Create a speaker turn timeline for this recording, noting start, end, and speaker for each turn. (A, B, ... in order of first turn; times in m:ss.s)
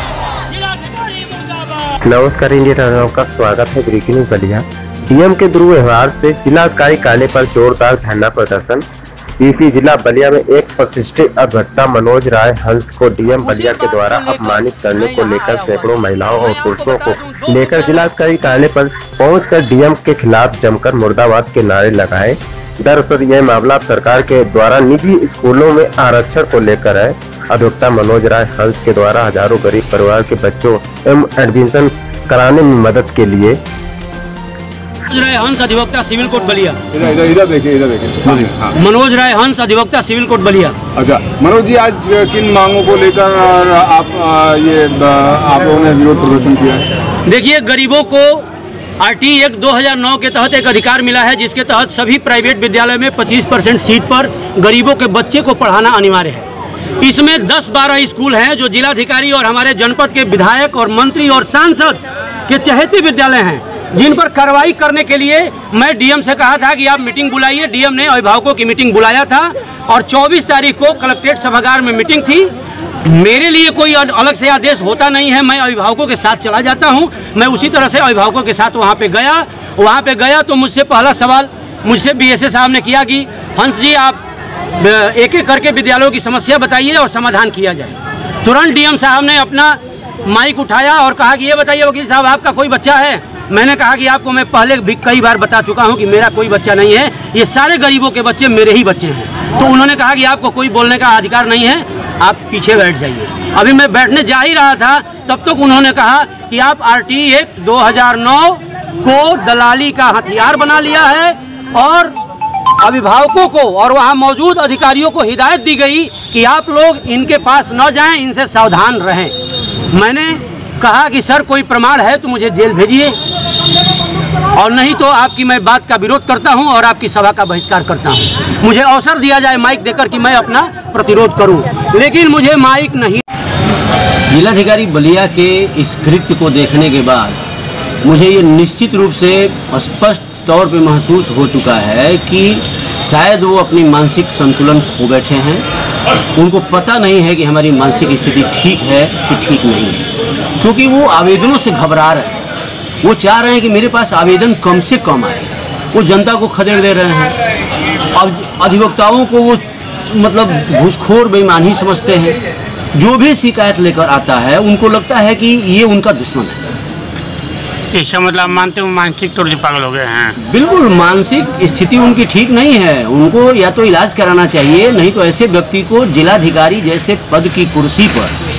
0:00.5-0:02.0 A
0:02.0-0:08.8 B
0:09.4-0:33.6 B
0:13.4-0:18.2 A
0:35.0-0:36.8 A
0:36.9-0:38.7 C
0:38.3-0:40.8 A
0:40.9-0:46.9 C
0:47.2-0:48.5 A
0:49.0-0:56.5 A
0:57.0-1:12.5 A
1:13.0-1:24.2 A
1:24.8-1:52.1 A
1:52.8-1:59.3 A
1:59.9-2:03.2 A
2:04.5-2:13.2 A
2:14.4-2:16.9 D
2:14.8-2:15.3 A
2:16.0-2:17.2 A
2:18.1-2:25.6 D
2:19.4-2:21.2 A
2:26.4-2:30.0 D
2:30.6-2:32.3 D
2:33.0-2:35.4 D
2:36.0-2:37.1 D
2:36.7-2:37.3 A
2:38.2-2:42.3 D
2:43.0-2:46.6 D
2:47.9-2:50.4 E
2:50.4-2:58.3 D